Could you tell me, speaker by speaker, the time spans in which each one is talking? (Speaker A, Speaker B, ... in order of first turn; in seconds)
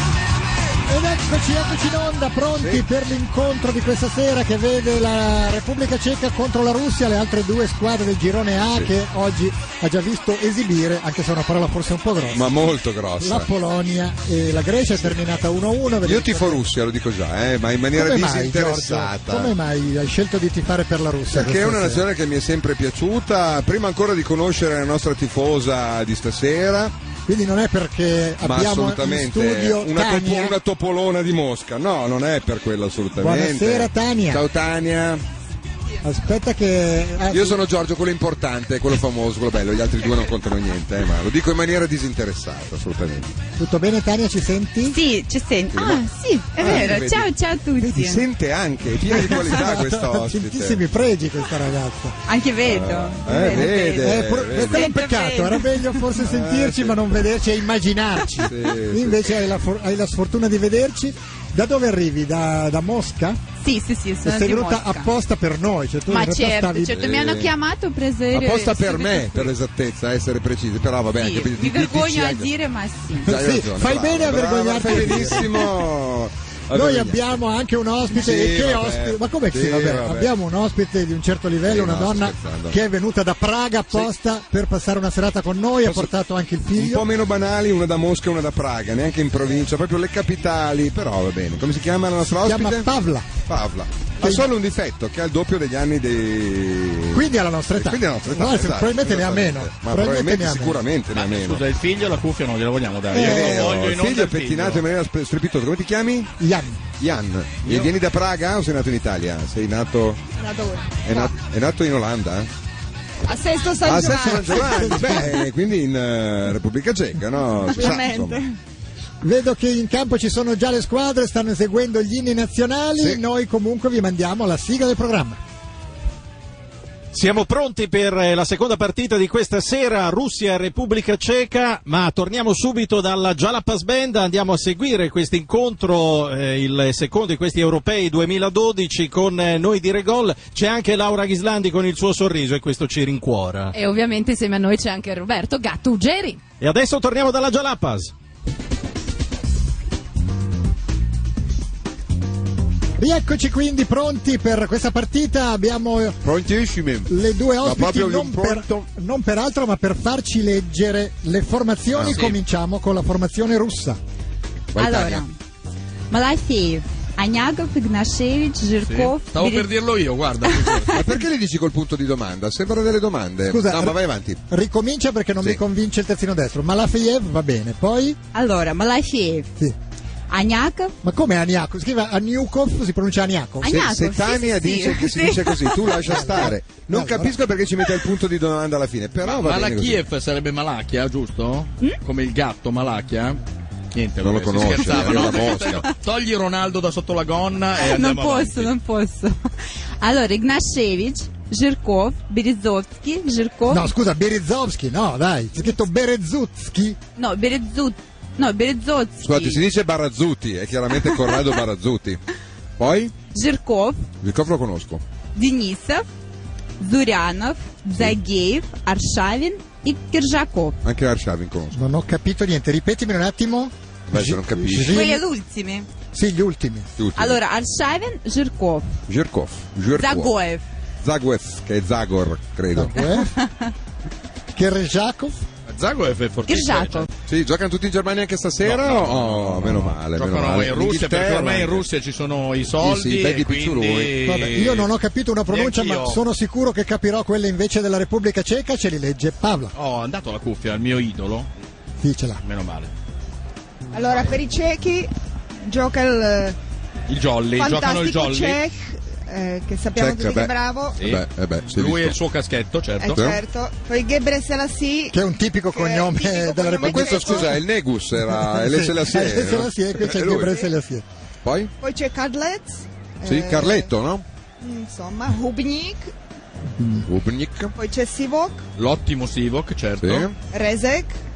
Speaker A: 0.8-12.5, 13.2-16.6, 17.9-22.0, 27.2-30.6, 33.2-34.4, 36.0-37.6, 43.6-45.0, 46.6-46.9, 49.1-52.1, 53.4-63.4, 64.2-67.0, 73.2-75.8, 76.7-87.0, 92.4-93.4, 94.2-94.5, 97.1-100.8, 103.1-103.8, 106.4-106.8, 113.9-115.4, 119.2-125.4, 153.0-156.2, 157.1-164.0, 173.4-174.0, 174.5-178.2, 181.0-183.8, 185.9-187.3, 203.7-207.0, 221.7-225.2, 226.1-226.9, 232.7-233.4, 234.5-235.4, 244.3-249.7, 252.0-252.4, 265.1-267.6, 268.2-271.0, 276.8-277.1
Speaker B: 12.3-13.5, 16.0-19.5, 21.3-26.9, 28.4-35.2, 37.3-43.3, 45.7-46.0, 46.6-50.8, 52.6-54.9, 56.2-57.1, 58.4-59.5, 66.9-67.5, 68.3-72.5, 73.3-77.2, 78.1-80.3, 81.7-82.8, 86.7-92.9, 93.4-97.2, 97.8-101.6, 103.1-106.3, 107.0-110.2, 111.0-112.5, 113.8-118.4, 156.2-158.8, 161.9-162.3, 164.7-165.2, 170.9-174.4, 183.6-190.0, 194.2-195.8, 209.2-212.2, 212.8-213.1, 214.2-215.0, 217.9-218.2, 220.8-221.8, 224.1-225.2, 227.0-227.4, 229.1-230.4, 231.0-233.1, 237.3-241.8, 242.8-244.3, 259.9-262.2, 263.1-263.4, 266.8-270.6, 271.4-271.7, 273.2-274.2, 277.0-277.7, 280.0-280.3
Speaker C: 44.9-48.2, 52.3-56.2, 63.6-65.1, 66.1-69.6, 71.2-73.4, 164.8-165.3, 166.1-169.7, 178.3-179.5, 180.3-180.9, 183.6-186.3, 194.9-195.5, 197.8-199.3, 200.0-203.9, 207.2-209.6, 213.3-214.0, 215.3-216.1, 216.8-220.8, 224.8-225.9, 227.2-228.8, 230.0-230.6, 236.5-237.1
Speaker D: 101.1-104.8, 107.6-107.9, 168.8-171.2, 189.2-193.4, 193.9-198.8, 235.7-237.1, 238.6-244.9, 245.5-246.2, 249.7-251.5, 252.4-252.9, 257.1-258.6, 261.0-263.3, 278.8-280.3
Speaker E: 110.4-111.3, 113.2-115.3, 117.7-118.5, 253.9-255.1, 255.6-256.6, 257.5-261.0, 263.0-265.2, 265.7-267.6, 271.8-273.9, 274.6-276.1, 277.7-278.6, 280.5-281.2
Speaker F: 127.1-143.7, 146.6-148.1
Speaker G: 143.7-146.4